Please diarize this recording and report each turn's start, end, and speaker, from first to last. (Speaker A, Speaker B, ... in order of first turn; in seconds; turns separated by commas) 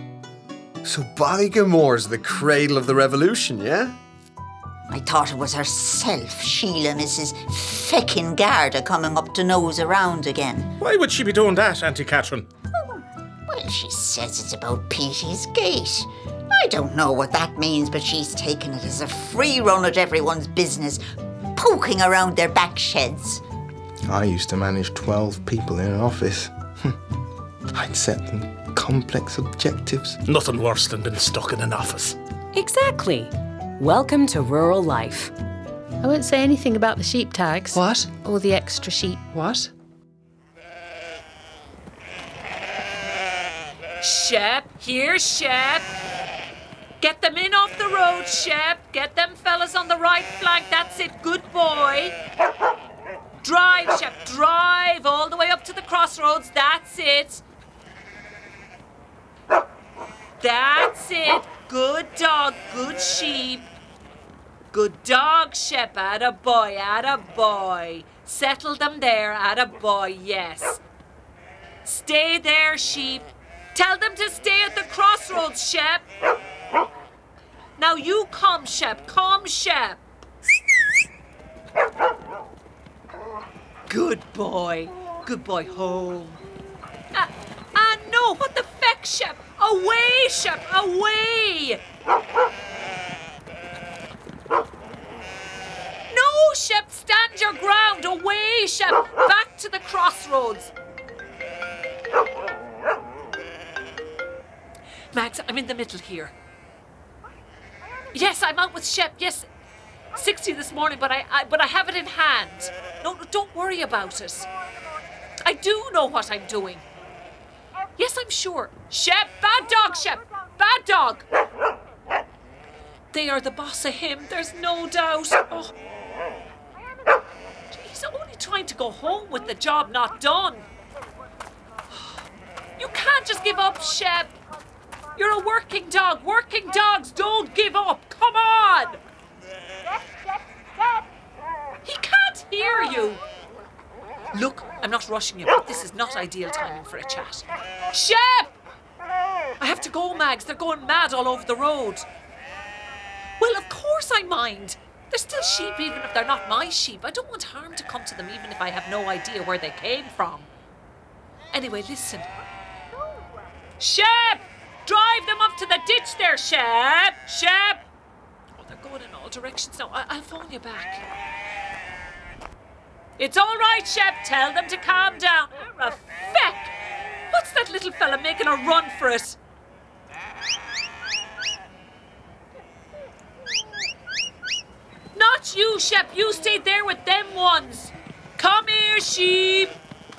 Speaker A: 0.8-4.0, Speaker B: 4.9-10.7, Speaker C: 10.8-12.5, Speaker B: 12.7-21.0, Speaker B: 21.6-23.4, Speaker D: 24.1-26.9, Speaker D: 27.7-30.2, Speaker C: 30.2-32.2, Speaker E: 32.5-35.3, Speaker F: 36.0-39.3, Speaker E: 36.5-37.7, Speaker G: 37.7-38.2, Speaker G: 39.3-39.7, Speaker G: 44.0-45.9, Speaker G: 47.0-52.2, Speaker G: 53.4-57.4, Speaker G: 60.4-63.7, Speaker G: 64.7-70.8, Speaker G: 71.8-76.0, Speaker G: 77.8-80.0, Speaker G: 83.9-86.4, Speaker G: 87.1-91.8, Speaker G: 96.1-100.7, Speaker G: 105.1-106.3, Speaker G: 108.1-109.5, Speaker G: 110.2-114.5, Speaker G: 115.5-116.8, Speaker G: 118.0-121.3, Speaker G: 123.1-125.7, Speaker G: 127.7-130.7, Speaker G: 132.8-134.3, Speaker G: 135.2-139.0, Speaker G: 141.8-143.2, Speaker G: 144.3-148.6, Speaker G: 149.6-152.1, Speaker G: 153.4-160.5, Speaker G: 161.5-162.3, Speaker G: 163.8-167.8, Speaker G: 168.6-171.0, Speaker G: 173.2-176.7, Speaker G: 177.3-179.4, Speaker G: 185.2-189.8